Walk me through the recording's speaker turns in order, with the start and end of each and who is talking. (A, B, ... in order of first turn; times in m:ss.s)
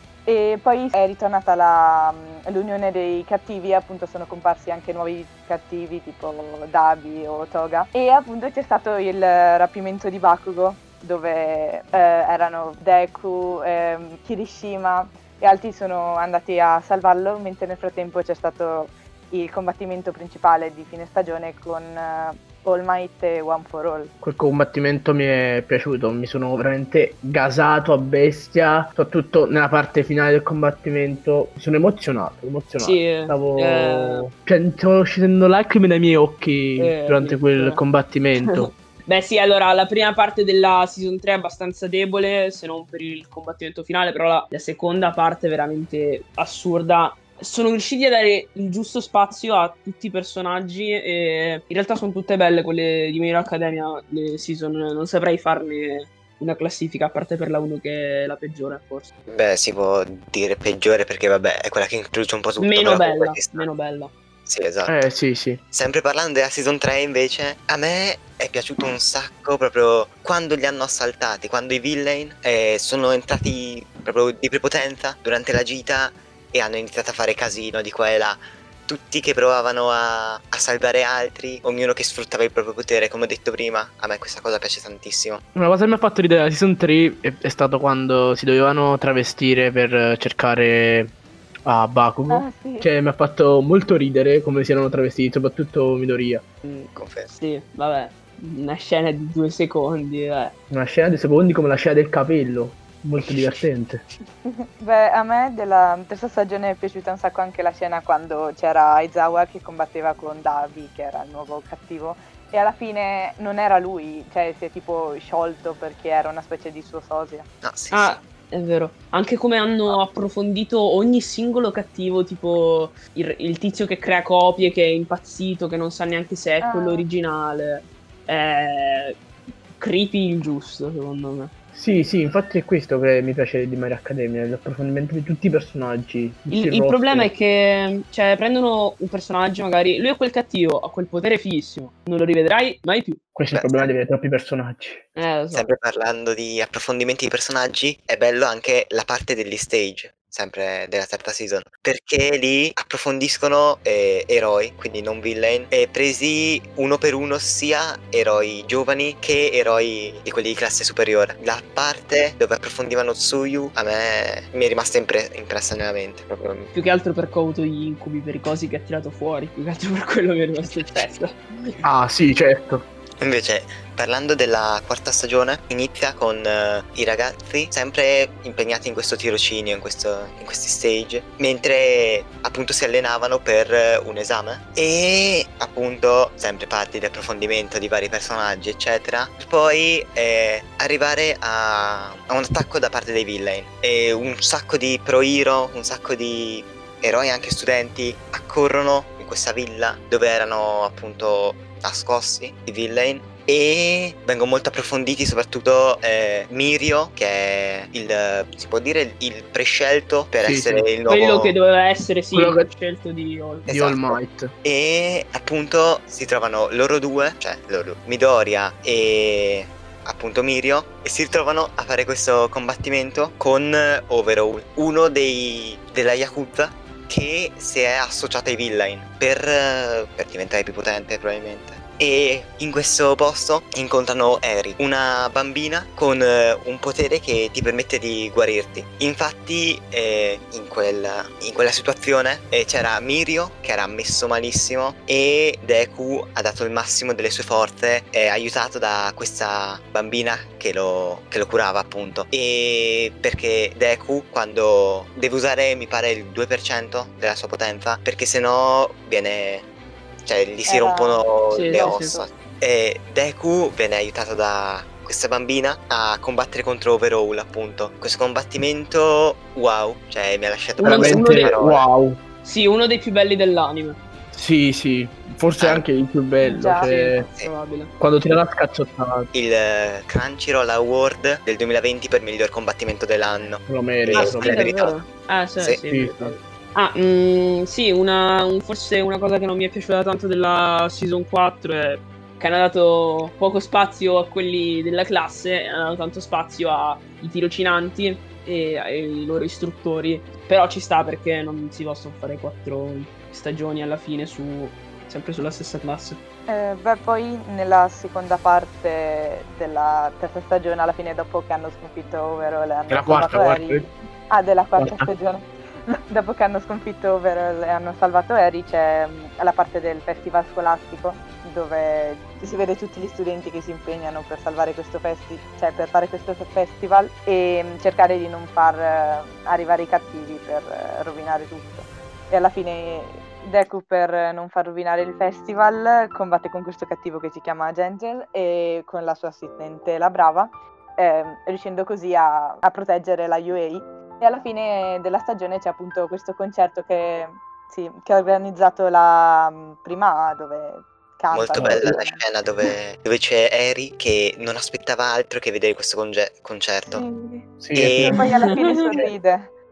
0:00.3-0:24.1 A
0:24.2-0:38.7 B
0:32.8-0:34.2 C
0:36.8-0:37.8 C
0:38.4-0:59.1 C
0:59.3-1:03.7 D
1:02.6-1:04.1 C
1:04.5-1:05.0 D
1:04.9-1:05.6 B
1:05.7-1:25.4 D
1:25.6-1:31.1 B
1:31.7-1:36.4 B
1:32.3-1:32.9 A
1:36.6-1:40.6 C
1:37.0-1:37.3 D
1:40.7-1:44.0 B
1:44.4-1:57.5 A
1:57.6-1:58.2 D
1:57.9-2:09.2 C
2:06.6-2:07.1 A
2:09.8-2:11.5 C
2:11.7-2:17.3 B
2:16.5-2:23.2 C
2:23.4-2:25.2 B
2:23.5-2:23.9 D
2:25.2-2:25.7 C
2:25.5-2:46.7 D
2:46.7-2:51.8 C
2:51.8-2:52.8 B
2:53.2-3:31.5 D
3:30.4-3:30.9 B
3:31.1-3:33.7 C
3:32.3-3:32.7 B
3:33.7-3:34.5 B
3:33.7-4:19.7 D
4:20.2-4:31.9 D
4:20.7-4:22.3 A
4:21.5-4:22.2 C
4:30.8-4:31.6 C
4:30.8-4:32.2 B
4:32.4-4:34.0 C
4:34.3-4:37.3 B
4:35.6-4:35.8 D
4:36.4-4:36.9 A
4:36.8-4:37.9 C
4:38.0-4:39.3 B
4:39.3-4:45.1 D
4:43.7-4:44.7 B
4:44.1-5:06.2 C
4:45.9-4:46.4 B
5:06.5-5:52.2 A
5:12.9-5:13.9 B
5:14.8-5:15.1 B
5:51.3-5:57.0 D
5:51.6-5:52.0 B
5:56.9-5:57.5 A
5:57.6-5:58.2 B
5:57.8-5:58.2 D
5:58.1-5:59.5 A
5:58.2-5:59.1 C